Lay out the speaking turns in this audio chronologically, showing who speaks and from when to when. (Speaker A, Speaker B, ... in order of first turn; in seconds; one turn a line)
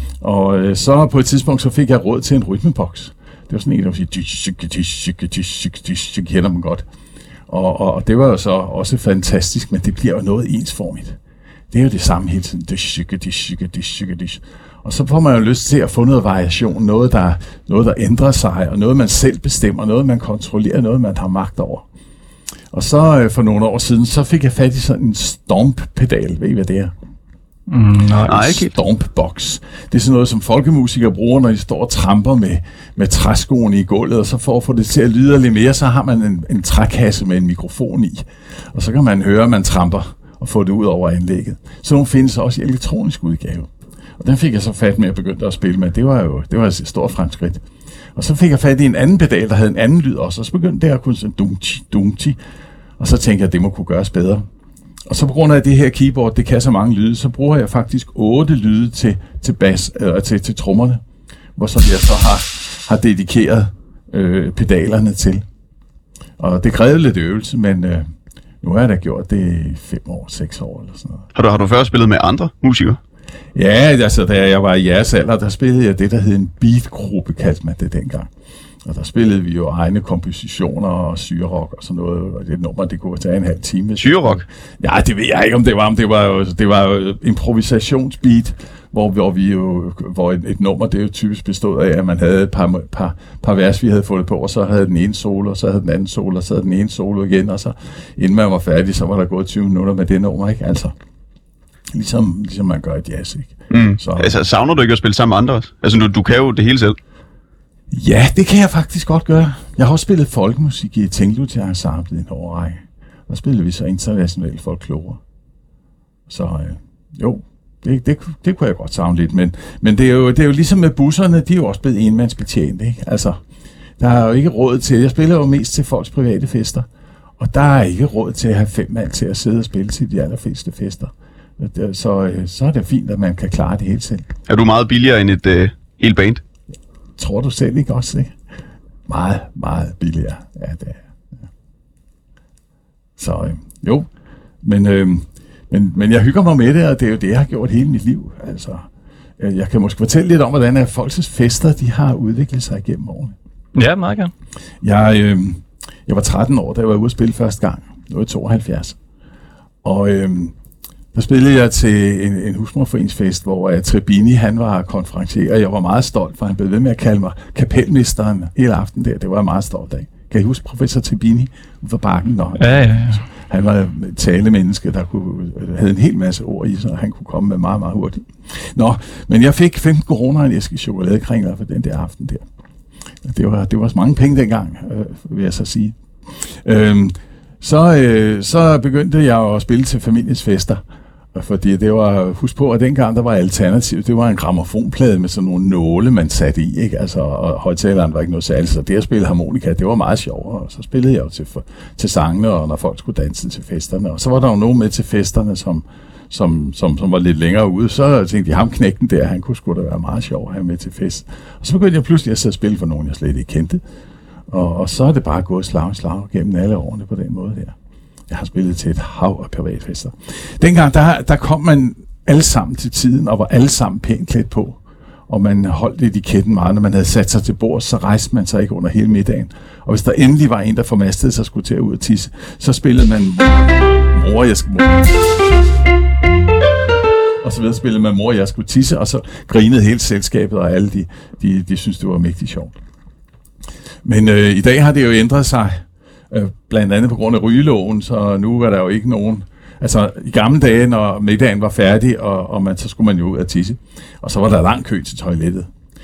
Speaker A: 0.2-6.8
Speaker A: 7.5-11.2
Speaker A: 11.7-21.9
Speaker A: 22.7-26.9
Speaker B: 27.7-28.6
Speaker C: 28.3-28.7
Speaker A: 28.3-52.4
Speaker A: 53.0-54.5
Speaker A: 55.1-61.0
Speaker A: 61.5-65.4
Speaker A: 66.4-68.1
Speaker A: 68.6-71.2
Speaker C: 71.3-73.0
Speaker A: 73.5-78.3
Speaker A: 78.8-100.9
Speaker C: 84.0-84.4
Speaker A: 101.9-104.4
Speaker C: 103.7-107.0
Speaker A: 107.9-115.2
Speaker A: 116.3-123.4
Speaker A: 124.0-126.8
Speaker A: 127.4-134.2
Speaker C: 134.5-136.4
Speaker A: 137.2-138.3
Speaker A: 139.1-141.1
Speaker A: 143.2-144.1
Speaker A: 144.6-148.9
Speaker A: 149.4-153.3
Speaker B: 153.7-154.3
Speaker A: 154.8-159.0
Speaker A: 159.8-160.5
Speaker A: 161.1-182.4
Speaker B: 172.6-173.2
Speaker A: 183.2-190.8
Speaker A: 191.3-213.8
Speaker A: 214.5-217.7
Speaker A: 218.3-235.1
Speaker A: 237.4-242.7
Speaker A: 244.0-255.7